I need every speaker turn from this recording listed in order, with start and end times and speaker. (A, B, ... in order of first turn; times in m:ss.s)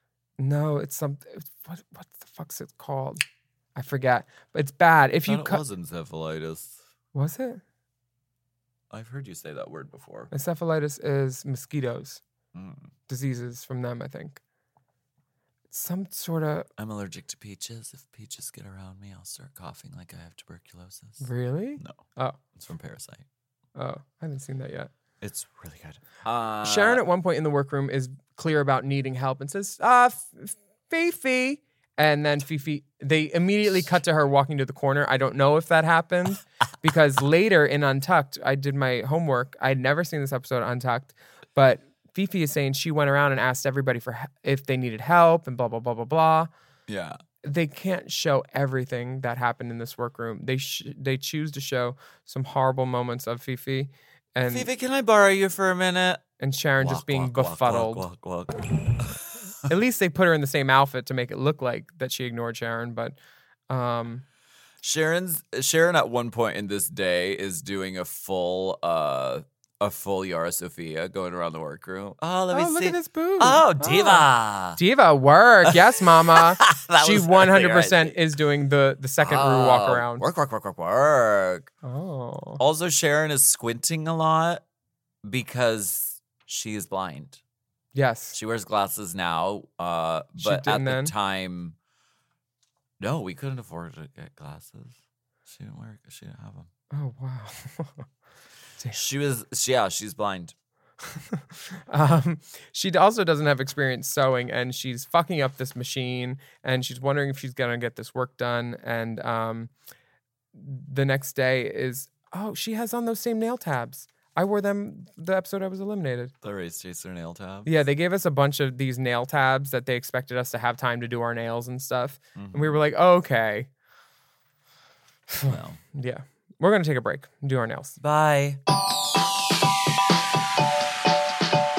0:00.4-0:03.2 A
0:03.7-0:05.6 A
0:05.3-0:06.8 B
0:07.1-0:07.6 A
0:08.9-0:10.3 B
0:10.3-0:12.2 A
0:12.5-0:12.9 B
0:13.1-0:14.4 A
0:15.7-0:16.7 A
0:16.8-0:21.2 B
0:21.2-0:22.4 A
0:22.5-0:23.2 B
0:23.8-0:24.9 A
0:25.2-0:27.0 B
0:26.6-0:46.5 A
0:46.9-0:47.2 B
0:47.4-0:54.7 A
0:54.4-0:56.2 B
0:56.4-0:58.0 A
0:56.8-0:59.4 B
0:59.6-1:03.2 A
1:03.7-1:04.2 A
1:04.8-1:14.8 B
1:12.5-1:14.2 A
1:14.8-1:20.2 A
1:15.6-1:18.2 B
1:19.2-1:21.7 B
1:21.8-1:22.6 A
1:22.6-1:24.6 B
1:25.2-1:27.4 B
1:27.9-1:28.4 A
1:28.3-1:31.8 B
1:30.4-1:31.1 A
1:33.0-1:36.7 B
1:36.9-1:38.0 A
1:38.9-1:40.5 B
1:41.1-1:49.7 A
1:50.5-1:56.3 A
1:56.4-1:57.7 B
1:57.6-2:03.7 A
2:02.4-2:02.8 B
2:05.3-2:08.0 A
2:05.4-2:05.8 B
2:08.0-2:08.6 B